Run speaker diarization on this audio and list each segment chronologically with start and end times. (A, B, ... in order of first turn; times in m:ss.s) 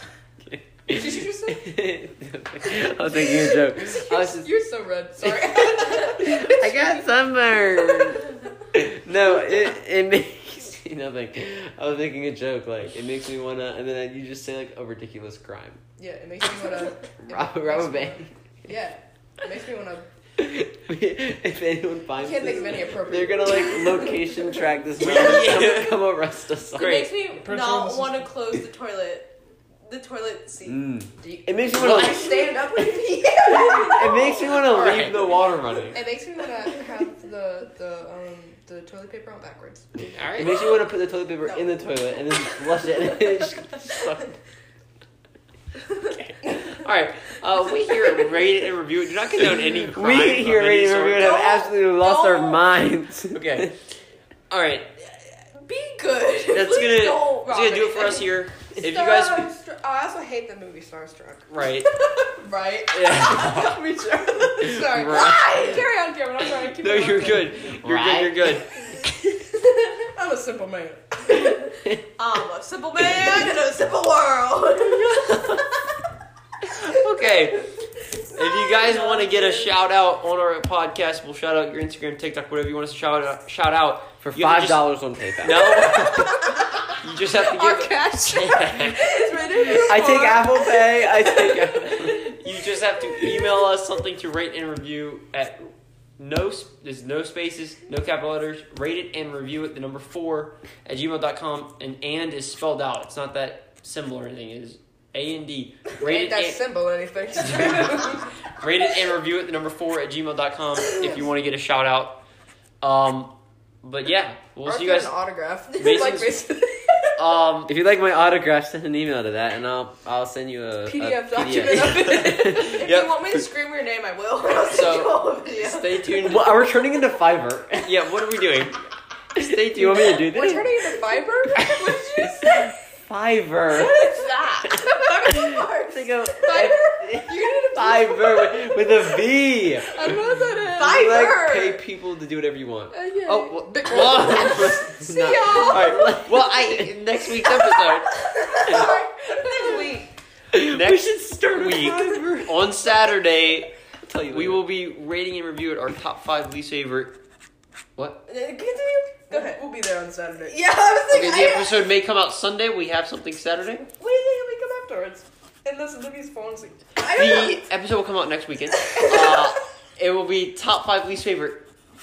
0:00.4-0:04.5 A
0:00.9-0:02.0 B
0:02.7-0:08.2 B
0:05.2-0:15.8 A
0:16.0-0:20.1 B
0:16.5-0:18.3 A
0:20.4-0:27.1 A
0:22.2-0:24.8 B
0:25.0-0:26.1 C
0:26.8-0:27.1 C
0:26.8-0:31.0 D
0:27.4-0:28.3 B
0:30.7-0:32.7 A
0:31.2-0:34.5 B
0:31.7-0:32.4 C
0:33.4-0:36.0 A
0:33.5-0:34.6 D
0:34.6-0:35.4 C
0:35.9-0:40.2 B
0:40.1-0:40.8 C
0:40.3-0:44.2 A
0:41.5-0:41.7 B
0:46.0-0:51.4 C
0:49.9-0:53.8 A
0:51.2-0:52.6 D
0:53.3-0:53.7 C
0:54.5-0:54.9 C
0:55.5-0:58.3 D
0:56.5-0:59.5 C
0:58.8-1:01.5 B
1:01.5-1:01.9 C
1:02.2-1:07.7 B
1:03.0-1:03.7 C
1:03.1-1:03.7 A
1:04.6-1:05.6 A
1:05.0-1:05.9 D
1:06.8-1:08.7 C
1:07.8-1:08.6 A
1:08.8-1:11.7 B
1:12.2-1:15.6 D
1:16.6-1:17.7 C
1:18.3-1:29.1 C
1:18.3-1:19.7 D
1:24.2-1:26.2 A
1:25.8-1:26.6 B
1:27.3-1:32.1 B
1:28.9-1:31.6 D
1:29.6-1:32.3 A
1:32.1-1:46.6 C
1:46.0-1:48.3 B
1:47.4-1:52.2 C
1:52.8-1:55.2 C
1:54.6-1:57.4 B
1:55.7-1:56.4 C
1:57.2-1:57.7 C
1:57.6-2:02.8 A
2:00.8-2:02.9 B
2:01.7-2:03.2 C
2:02.5-2:06.0 D
2:04.7-2:05.2 C
2:05.6-2:08.0 A
2:06.1-2:06.5 C
2:07.8-2:08.8 C
2:09.4-2:10.1 C
2:09.4-2:11.0 A
2:09.7-2:12.7 B
2:11.5-2:14.0 A
2:13.8-2:16.7 D
2:13.9-2:14.7 B
2:15.3-2:22.9 A
2:16.4-2:19.3 B
2:19.8-2:21.3 B
2:20.8-2:21.8 D
2:22.9-2:26.2 B
2:23.3-2:25.0 C
2:23.8-2:27.0 A
2:25.6-2:28.2 C
2:28.2-2:30.1 D
2:28.5-2:29.9 B
2:30.5-2:32.6 A
2:30.5-2:33.7 C
2:34.0-2:34.6 A
2:34.3-2:37.2 C
2:38.3-2:39.6 D
2:39.3-2:40.6 B
2:40.5-2:41.7 D
2:41.1-2:43.9 C
2:43.9-2:46.8 B
2:47.0-2:47.6 D
2:47.1-2:51.6 C
2:48.8-2:49.3 D